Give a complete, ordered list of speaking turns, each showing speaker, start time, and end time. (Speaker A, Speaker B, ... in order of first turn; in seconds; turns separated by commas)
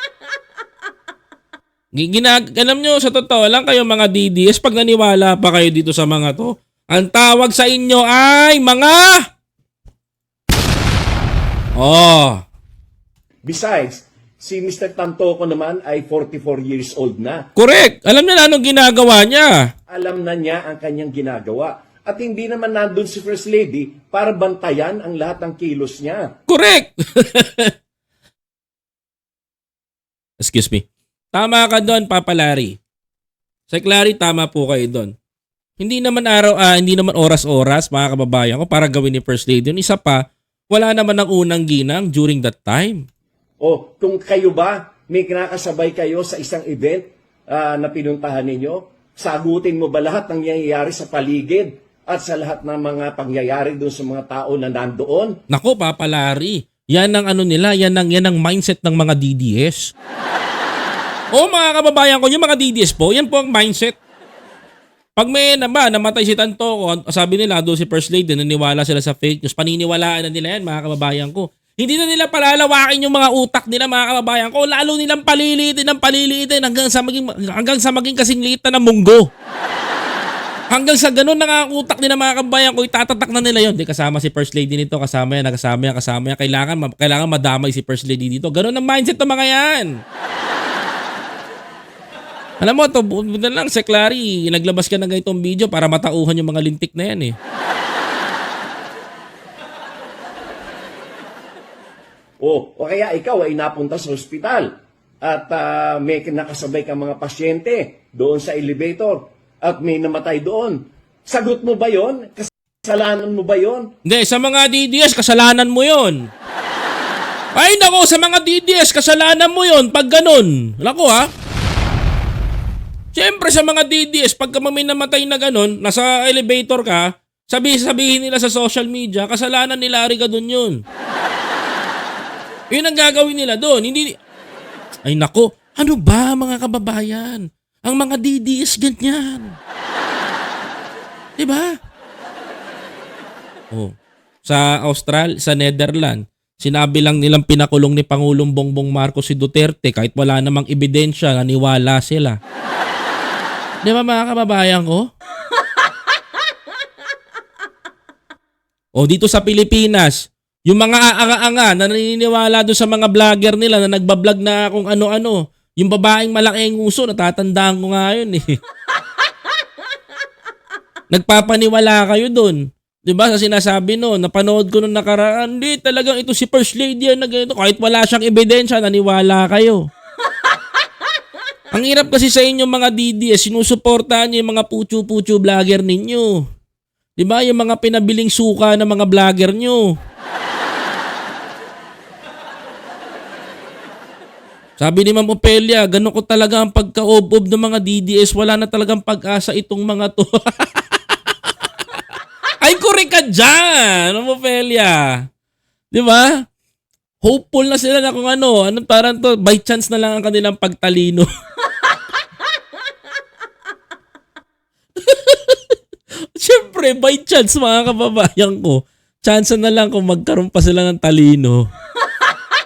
Speaker A: 1.9-9.2, Speaker A: 11.8-12.4, Speaker B: 13.4-17.4, Speaker A: 17.6-19.7, Speaker B: 19.9-26.3, Speaker A: 26.5-27.7, Speaker A: 30.4-32.8, Speaker A: 33.7-35.1, Speaker A: 35.8-43.0, Speaker B: 43.6-55.4, Speaker A: 55.5-59.9, Speaker A: 61.3-64.0, Speaker A: 65.2-79.3, Speaker A: 80.7-89.9, Speaker A: 92.6-97.4, Speaker B: 102.4-104.7, Speaker B: 105.2-113.9, Speaker A: 114.0-116.2, Speaker A: 117.6-121.3, Speaker A: 123.1-130.8, Speaker A: 132.7-134.1, Speaker A: 135.1-139.6, Speaker A: 141.4-141.7, Speaker A: 144.4-152.4, Speaker A: 153.8-155.1, Speaker A: 158.9-168.6, Speaker A: 171.1-179.8, Speaker A: 181.7-186.4, Speaker A: 187.2-189.9, Speaker A: 194.8-201.0, Speaker A: 202.6-205.0, Speaker A: 205.9-206.3, Speaker A: 207.2-211.3, Speaker A: 215.0-215.8, Speaker A: 216.3-221.7